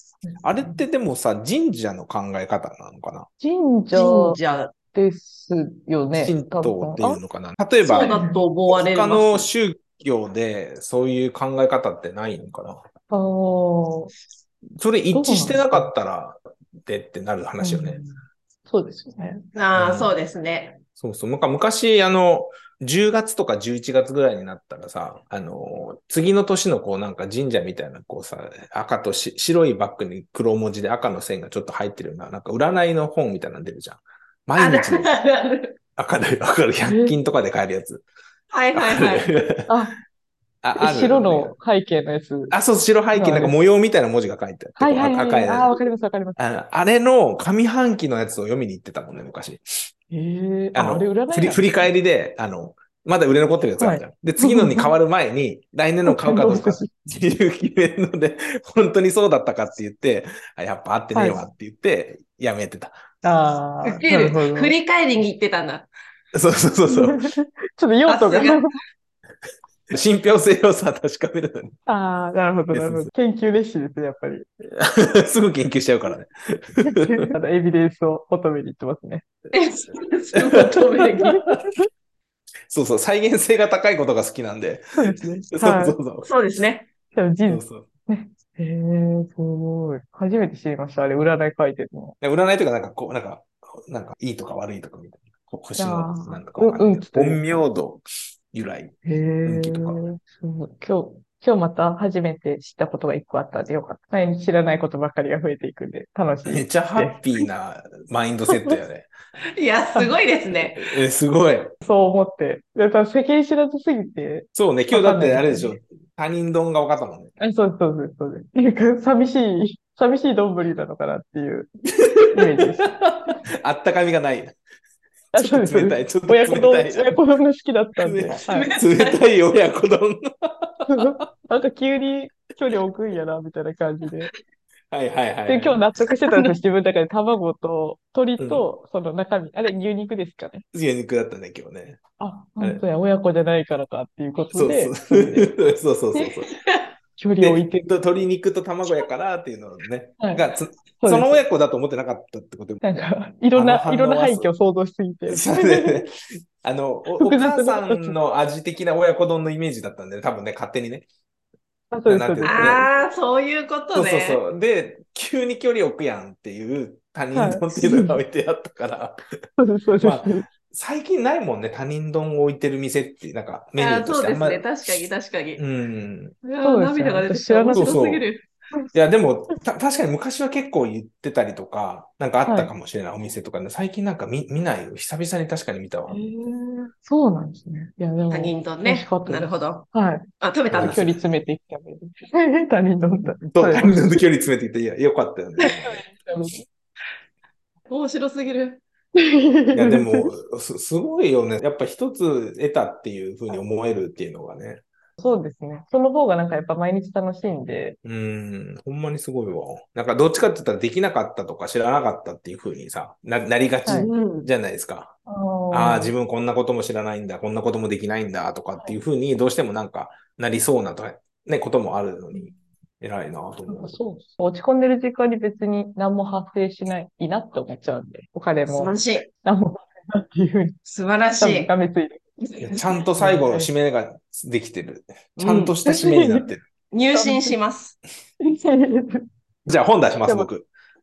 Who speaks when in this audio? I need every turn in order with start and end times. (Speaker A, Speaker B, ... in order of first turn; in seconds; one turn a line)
Speaker A: 0.2-0.8
Speaker B: 0.4-3.3
Speaker A: 3.4-4.4
Speaker C: 3.9-4.7
Speaker A: 4.9-7.2
Speaker B: 6.1-12.8
Speaker C: 7.8-9.5
Speaker A: 8.0-8.4
Speaker A: 13.1-14.1
Speaker B: 14.8-18.0
Speaker A: 15.1-15.9
Speaker A: 17.6-18.2
Speaker A: 18.7-19.5
Speaker C: 19.6-20.8
Speaker B: 19.8-20.1
Speaker B: 21.0-35.1
Speaker C: 34.6-35.8
Speaker B: 36.0-38.0
Speaker A: 36.9-37.2
Speaker C: 38.5-39.3
Speaker B: 38.8-39.7
Speaker A: 39.7-40.0
Speaker B: 40.6-41.5
Speaker A: 40.8-42.6
Speaker B: 42.5-45.8
Speaker A: 43.1-43.5
Speaker A: 44.8-46.4
Speaker B: 46.4-49.9
Speaker A: 50.1-51.9
Speaker B: 50.7-63.0
Speaker A: 53.8-55.0
Speaker A: 56.0-57.0
Speaker A: 61.1-61.4
Speaker A: 63.2-64.7
Speaker C: 63.8-65.9
Speaker B: 66.3-67.3
Speaker A: 66.9-68.7
Speaker C: 68.1-68.6
Speaker B: 69.9-71.8
Speaker A: 71.9-74.5
Speaker B: 72.7-73.1
Speaker B: 74.8-77.3
Speaker A: 76.8-79.2
Speaker C: 79.5-81.4
Speaker B: 80.3-80.8
Speaker A: 81.2-81.8
Speaker B: 81.3-81.7
Speaker B: 82.7-86.3
Speaker A: 85.0-86.0
Speaker C: 86.2-86.9
Speaker A: 87.1-92.2
Speaker B: 87.5-87.9
Speaker B: 92.2-98.9
Speaker A: 95.8-97.6
Speaker A: 99.0-107.5
Speaker B: 99.5-100.0
Speaker B: 106.5-109.1
Speaker A: 108.5-108.8
Speaker C: 109.5-110.9
Speaker B: 110.8-111.7
Speaker A: 111.8-115.8
Speaker B: 114.5-117.3
Speaker A: 117.4-121.7
Speaker B: 122.0-124.6
Speaker A: 122.3-123.4
Speaker B: 125.3-127.2
Speaker A: 125.3-128.7
Speaker B: 128.0-131.1
Speaker C: 128.4-129.2
Speaker A: 130.9-134.3
Speaker B: 134.9-135.8
Speaker A: 135.5-140.7
Speaker B: 138.4-138.7
Speaker B: 140.7-142.0
Speaker A: 142.2-145.6
Speaker B: 144.5-146.5
Speaker C: 146.6-146.9
Speaker A: 147.2-147.9
Speaker B: 147.4-152.8
Speaker A: 150.2-150.5
Speaker A: 151.0-151.4
Speaker A: 152.8-156.1
Speaker B: 153.5-154.5
Speaker B: 155.3-161.1
Speaker A: 157.2-158.2
Speaker A: 161.9-162.8
Speaker B: 162.1-162.9
Speaker C: 162.4-164.4
Speaker B: 163.9-169.2
Speaker A: 167.3-168.2
Speaker A: 169.6-170.5
Speaker B: 170.0-174.7
Speaker C: 173.8-175.6
Speaker B: 175.6-176.4
Speaker C: 176.4-178.4
Speaker A: 176.6-178.0
Speaker B: 177.7-178.2
Speaker B: 178.9-186.2
Speaker A: 182.5-182.7
Speaker A: 186.1-194.2
Speaker C: 188.3-189.9
Speaker C: 190.4-191.0
Speaker B: 190.7-191.2
Speaker B: 193.2-196.0
Speaker A: 195.6-196.7
Speaker C: 197.9-198.8
Speaker A: 199.2-200.3
Speaker B: 199.7-204.8
Speaker A: 205.2-208.0
Speaker B: 208.1-215.2
Speaker A: 213.9-214.1
Speaker C: 213.9-214.5
Speaker A: 215.3-216.1
Speaker B: 215.7-224.0
Speaker A: 223.7-230.8
Speaker C: 228.7-229.3
Speaker C: 230.9-231.7
Speaker A: 231.4-233.7
Speaker B: 232.6-236.6
Speaker C: 235.4-235.8
Speaker A: 235.9-236.5
Speaker C: 236.9-238.0
Speaker A: 237.1-237.6
Speaker A: 238.4-239.3
Speaker B: 239.7-240.7
Speaker A: 240.2-240.5